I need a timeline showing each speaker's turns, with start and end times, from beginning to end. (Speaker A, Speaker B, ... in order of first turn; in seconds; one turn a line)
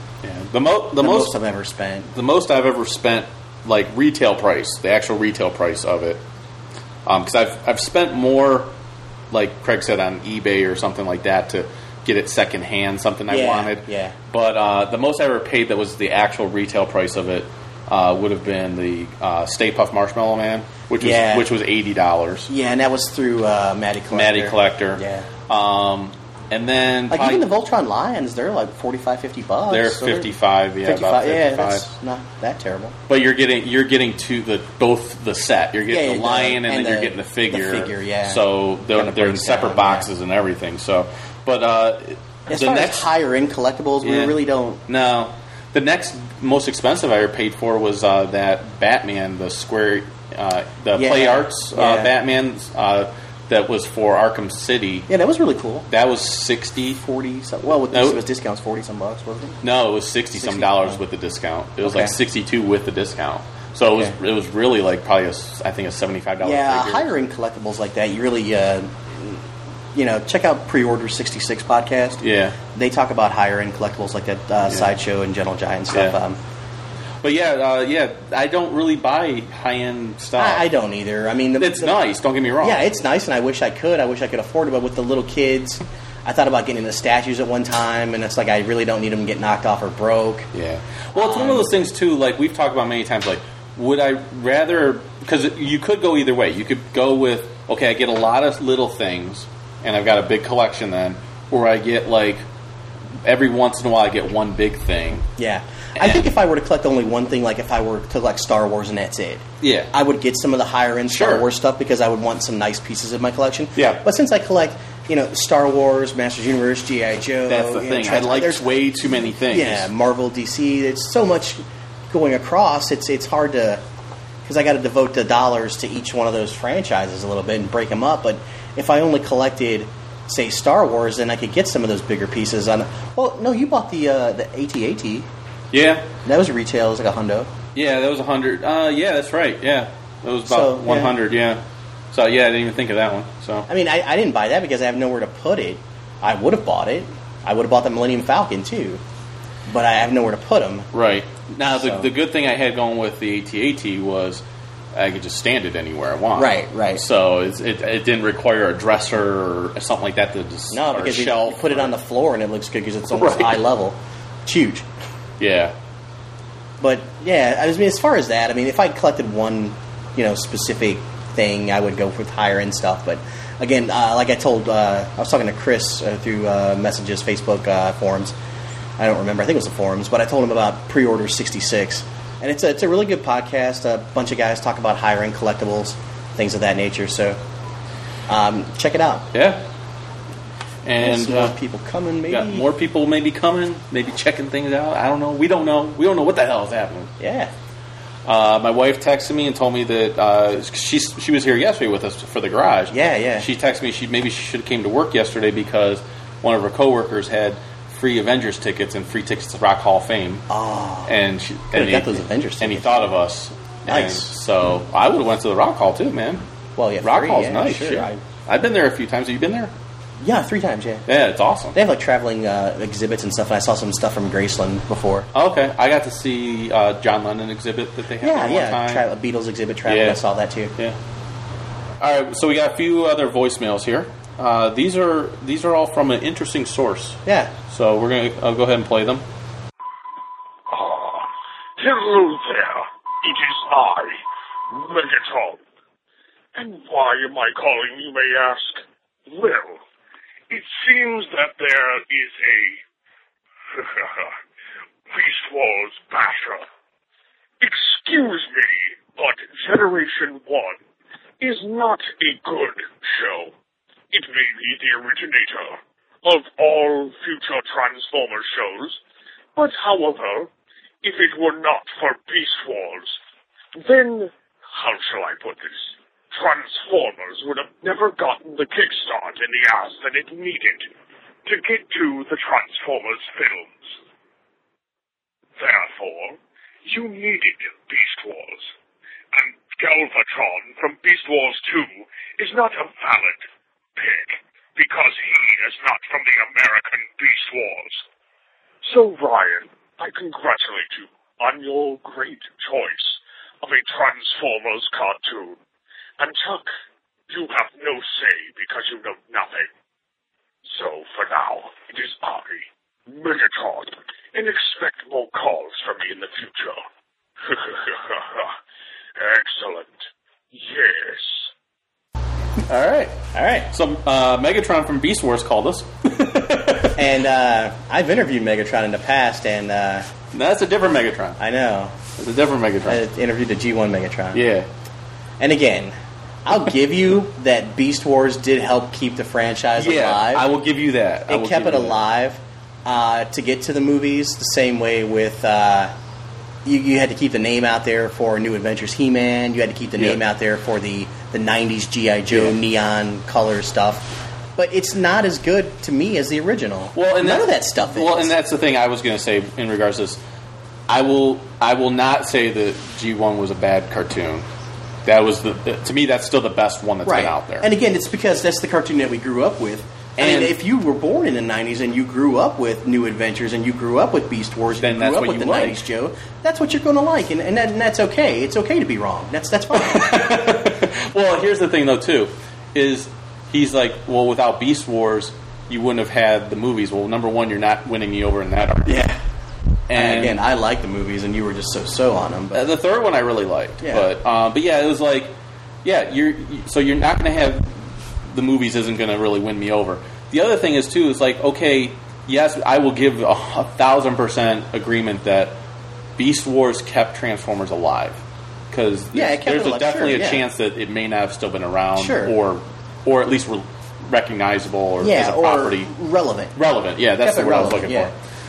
Speaker A: 0.2-1.3
Speaker B: 1.0-2.1
Speaker A: 2.1-6.2
Speaker A: 7.0-8.7
Speaker A: 9.3-22.5
Speaker B: 13.3-14.1
Speaker B: 21.0-21.5
Speaker B: 22.5-25.3
Speaker A: 24.1-27.5
Speaker B: 27.1-30.3
Speaker A: 29.7-31.9
Speaker B: 30.8-33.0
Speaker A: 33.1-43.1
Speaker B: 35.9-40.1
Speaker B: 42.5-44.8
Speaker A: 44.0-55.1
Speaker B: 50.9-52.1
Speaker B: 55.1-55.9
Speaker A: 55.9-57.0
Speaker B: 57.0-59.6
Speaker A: 57.6-58.2
Speaker A: 59.6-67.1
Speaker B: 60.3-61.0
Speaker B: 61.8-62.1
Speaker B: 66.4-69.4
Speaker B: 69.9-72.2
Speaker A: 72.2-72.6
Speaker B: 72.7-76.4
Speaker A: 74.7-74.9
Speaker A: 75.9-76.2
Speaker A: 77.2-80.7
Speaker B: 80.4-82.0
Speaker A: 81.6-82.8
Speaker B: 82.6-90.5
Speaker A: 90.5-102.4
Speaker B: 91.1-91.7
Speaker A: 103.2-105.3
Speaker B: 105.4-123.8
Speaker A: 106.0-106.3
Speaker A: 109.6-109.9
Speaker A: 111.1-111.5
Speaker A: 113.8-114.0
Speaker A: 117.5-119.9
Speaker B: 124.4-135.3
Speaker A: 135.7-136.1
Speaker B: 136.2-137.5
Speaker A: 137.7-143.7
Speaker B: 140.4-141.1
Speaker B: 143.7-149.0
Speaker B: 149.7-150.9
Speaker A: 150.9-161.9
Speaker B: 151.7-152.1
Speaker B: 156.3-157.0
Speaker B: 160.7-164.8
Speaker A: 163.1-163.6
Speaker A: 165.4-165.7
Speaker B: 166.8-178.3
Speaker B: 179.0-187.4
Speaker B: 188.3-189.3
Speaker A: 189.3-189.6
Speaker A: 190.8-191.6
Speaker B: 191.0-192.7
Speaker A: 192.3-197.1
Speaker B: 197.2-197.5
Speaker A: 198.2-210.4
Speaker B: 202.9-203.5
Speaker B: 210.5-211.1
Speaker A: 211.1-216.4
Speaker B: 211.7-213.1
Speaker B: 213.9-214.3
Speaker B: 216.8-218.2
Speaker A: 217.0-219.7
Speaker B: 220.2-221.1
Speaker A: 221.1-221.8
Speaker B: 221.7-225.3
Speaker A: 225.3-229.0
Speaker B: 228.2-230.7
Speaker A: 229.8-230.2
Speaker A: 232.0-239.2
Speaker B: 237.2-237.5
Speaker C: 240.7-245.6
Speaker C: 246.5-249.8
Speaker C: 250.5-252.8
Speaker C: 253.7-254.3
Speaker C: 255.1-256.7
Speaker C: 257.6-260.8
Speaker C: 261.4-263.5
Speaker C: 264.1-269.0
Speaker C: 269.5-270.5
Speaker C: 271.0-273.2
Speaker C: 273.7-280.9
Speaker C: 281.4-284.0
Speaker C: 285.6-288.7
Speaker C: 289.3-298.0
Speaker C: 298.8-305.6
Speaker C: 306.2-306.7
Speaker C: 307.3-309.7
Speaker C: 310.6-316.8
Speaker C: 317.4-318.6
Speaker C: 319.2-321.5
Speaker A: 322.7-323.2
Speaker B: 323.3-323.7
Speaker A: 323.7-326.9
Speaker B: 326.9-330.1
Speaker A: 330.3-331.4
Speaker B: 331.4-331.9
Speaker A: 332.2-333.0
Speaker B: 332.9-334.4
Speaker A: 334.3-334.7
Speaker B: 335.4-335.9
Speaker B: 336.4-340.4
Speaker A: 339.8-342.0
Speaker B: 341.3-345.9
Speaker B: 346.6-358.3
Speaker A: 352.3-352.6
Speaker A: 356.9-360.2
Speaker A: 360.9-364.5
Speaker A: 365.0-367.7
Speaker B: 367.0-380.4
Speaker A: 370.2-370.6
Speaker A: 374.8-375.8
Speaker A: 379.7-388.9
Speaker B: 388.9-389.2
Speaker A: 389.9-390.4
Speaker B: 389.9-392.6
Speaker A: 392.5-405.6
Speaker B: 393.8-394.1
Speaker A: 406.2-415.9
Speaker B: 409.1-410.4
Speaker B: 411.9-412.3
Speaker B: 415.0-416.6
Speaker A: 416.5-418.1
Speaker B: 417.2-418.1